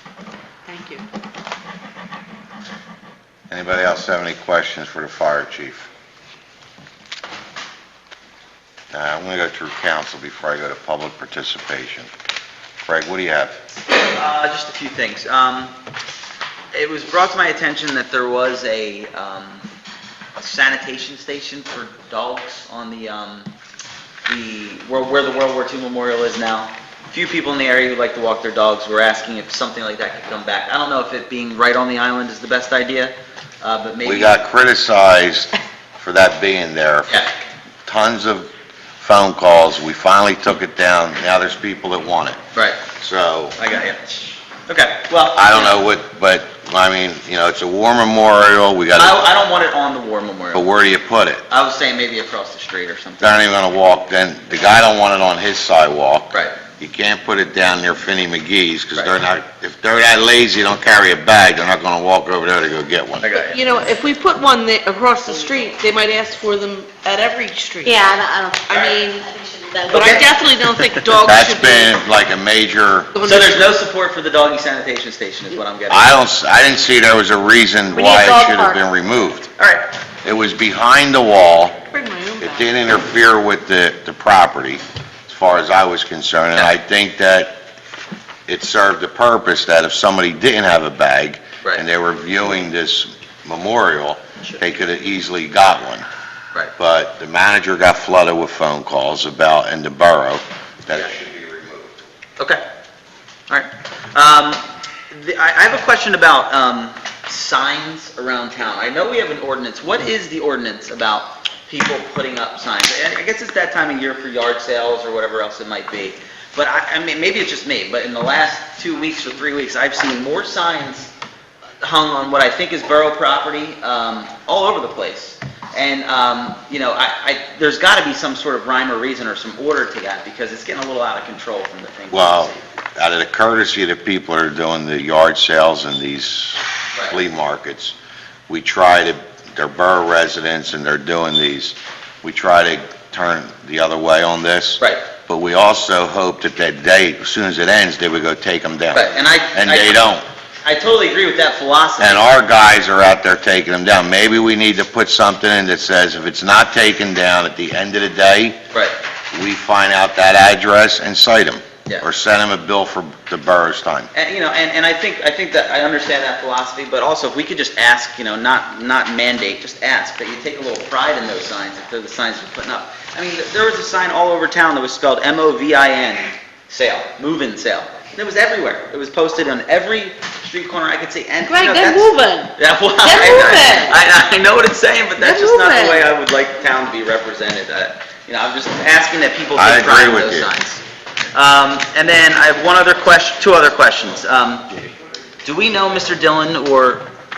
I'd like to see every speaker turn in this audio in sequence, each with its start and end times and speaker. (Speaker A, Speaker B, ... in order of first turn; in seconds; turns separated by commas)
Speaker A: 0.7-1.0, Speaker B: 3.5-5.9, Speaker B: 8.9-12.1, Speaker B: 12.8-13.6, Speaker C: 14.1-15.8, Speaker C: 16.7-19.7, Speaker C: 20.4-23.5, Speaker C: 24.3-34.4, Speaker B: 34.0-37.2, Speaker B: 37.9-42.4, Speaker C: 42.5-42.8, Speaker B: 43.0-43.6, Speaker C: 43.6-45.7, Speaker B: 45.4-49.2, Speaker C: 48.9-50.7, Speaker B: 50.5-51.4, Speaker C: 51.5-53.4, Speaker B: 53.2-63.3, Speaker C: 56.3-56.6, Speaker C: 63.2-63.6, Speaker A: 63.4-68.1, Speaker D: 67.9-70.0, Speaker A: 68.7-69.3, Speaker A: 69.9-72.0, Speaker C: 69.9-71.0, Speaker B: 71.2-73.1, Speaker A: 73.1-73.8, Speaker C: 73.2-76.2, Speaker B: 75.9-79.5, Speaker D: 77.9-78.8, Speaker C: 79.6-79.9, Speaker B: 80.2-81.8, Speaker A: 81.9-82.7, Speaker B: 82.4-87.6, Speaker B: 88.5-96.0, Speaker B: 96.8-102.0, Speaker C: 102.4-102.6, Speaker C: 103.5-121.1, Speaker C: 121.8-132.6, Speaker B: 132.1-137.9, Speaker B: 138.5-150.2, Speaker C: 148.9-150.1, Speaker C: 150.6-152.3, Speaker B: 152.0-158.6, Speaker B: 159.3-164.1, Speaker C: 164.1-190.8, Speaker A: 181.5-183.9, Speaker A: 185.2-186.1, Speaker B: 189.6-190.5, Speaker C: 191.3-194.8, Speaker C: 195.4-197.1